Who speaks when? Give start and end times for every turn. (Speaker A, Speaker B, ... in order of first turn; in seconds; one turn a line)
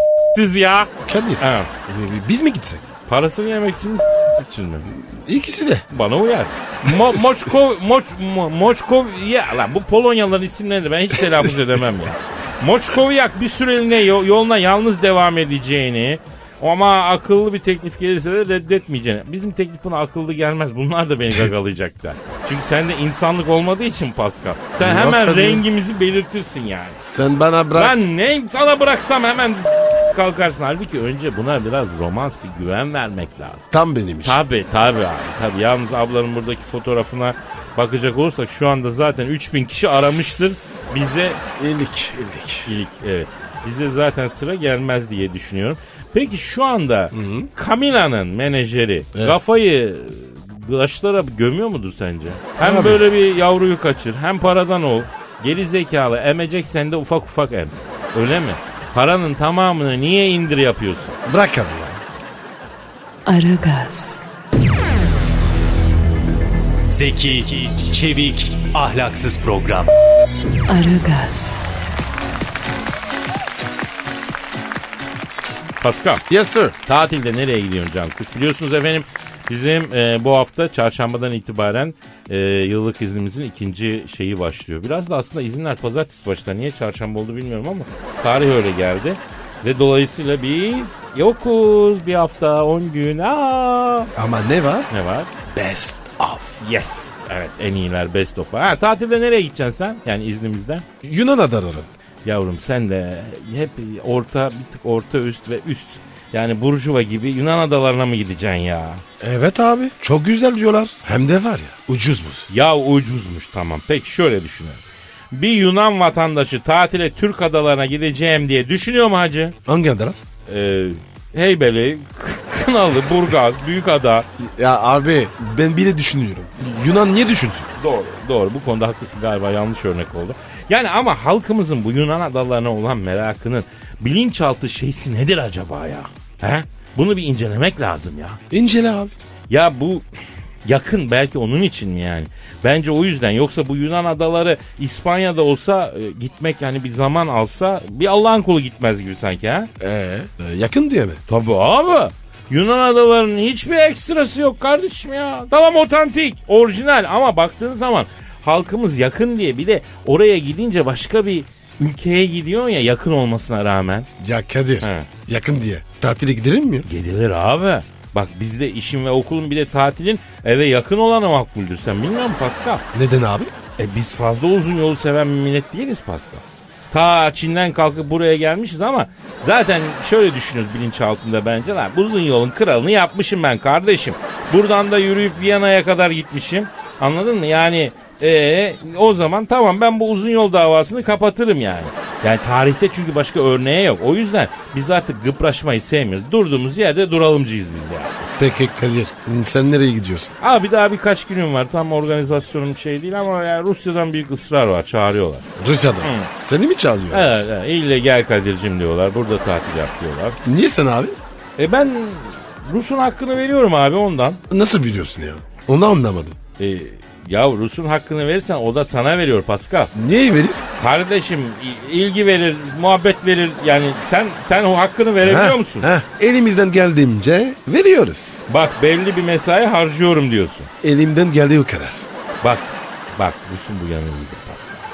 Speaker A: 0.3-1.7
Speaker B: 1.0-2.9
Speaker A: 3.1-4.9
Speaker B: 5.0-5.9
Speaker A: 5.9-27.0
Speaker B: 24.8-25.6
Speaker B: 27.0-28.0
Speaker A: 27.8-33.6
Speaker B: 33.7-34.4
Speaker A: 34.2-41.4
Speaker B: 41.6-42.7
Speaker A: 42.7-61.2
Speaker B: 47.1-47.5
Speaker B: 52.6-53.0
Speaker B: 61.3-62.0
Speaker C: 63.3-64.3
Speaker D: 66.9-69.9
Speaker C: 70.7-71.7
Speaker A: 75.8-76.2
Speaker B: 76.3-76.8
Speaker A: 76.9-94.1
Speaker B: 94.2-94.9
Speaker A: 94.9-95.3
Speaker B: 95.5-96.6
Speaker A: 96.6-100.9
Speaker B: 101.0-101.9
Speaker A: 102.2-109.0
Speaker B: 109.2-112.5
Speaker A: 112.5-114.8
Speaker A: 115.3-119.6
Speaker B: 119.7-120.2
Speaker A: 120.5-124.3
Speaker B: 124.4-127.7
Speaker A: 127.8-138.4
Speaker B: 138.5-139.1
Speaker A: 139.5-140.1
Speaker A: 140.7-149.7
Speaker B: 149.8-151.2
Speaker A: 151.3-164.1
Speaker B: 164.2-166.9
Speaker A: 164.8-165.1
Speaker A: 166.9-172.8
Speaker B: 172.9-173.5
Speaker A: 173.8-198.2
Speaker B: 198.4-200.3
Speaker A: 200.4-205.5
Speaker B: 205.6-207.5
Speaker A: 206.0-206.3
Speaker A: 207.1-210.4
Speaker B: 210.4-211.2
Speaker A: 211.6-214.4
Speaker B: 214.5-216.4
Speaker A: 216.6-219.9
Speaker B: 219.9-220.6
Speaker A: 220.8-225.9
Speaker B: 225.2-228.4
Speaker A: 228.5-230.7
Speaker B: 230.8-232.0
Speaker A: 232.4-234.8